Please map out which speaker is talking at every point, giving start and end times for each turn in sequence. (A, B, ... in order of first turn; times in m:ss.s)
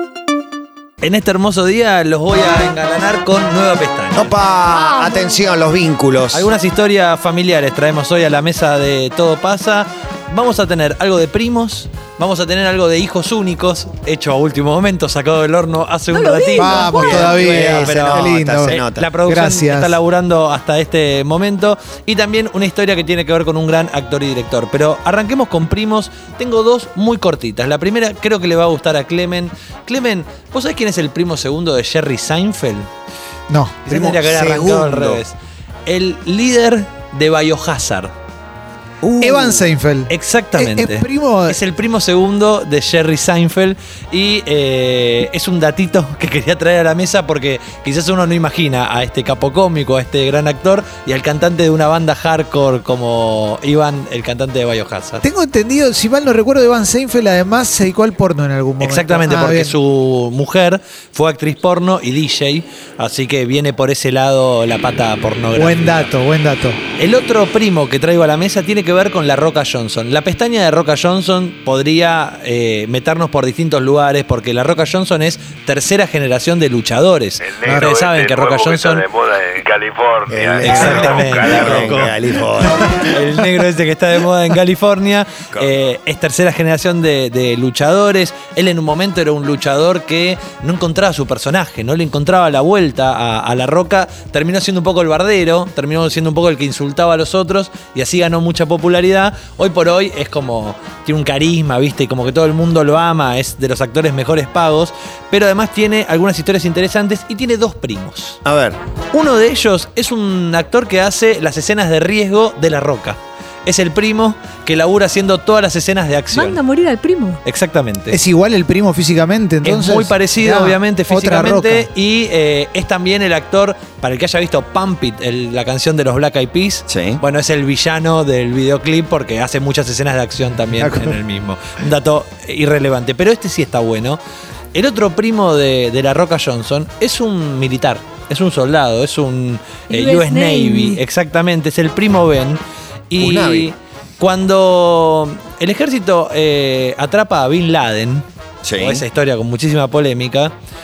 0:01.0-0:04.3 A
0:04.1-0:06.5 B
0:04.7-0:05.5 C
0:06.3-0:32.9 A
0:16.1-0:17.6 C
0:16.5-0:20.0 D
0:16.9-0:19.1 B
0:33.5-0:33.8 D
0:33.8-0:38.1 A
0:33.9-0:35.2 B
0:39.0-0:39.7 B
0:39.2-0:41.6 D
0:40.1-0:55.2 A
0:55.2-0:59.7 D
0:58.8-1:06.1 A
1:05.5-1:06.8 D
1:07.0-1:19.1 A
1:17.4-1:21.9 E
1:17.6-1:17.9 D
1:20.3-1:23.1 B
1:20.6-1:22.1 A
1:23.1-1:48.4 A
1:48.4-1:48.8 B
1:49.1-1:56.6 A
1:56.3-1:57.4 C
1:57.4-1:58.2 A
1:58.1-2:01.9 D
1:59.6-2:14.2 A
2:06.9-2:07.2 B
2:10.8-2:11.2 D
2:14.7-2:28.2 A
2:19.9-2:21.0 C
2:23.2-2:23.7 B
2:28.6-2:29.0 B
2:28.8-2:30.5 A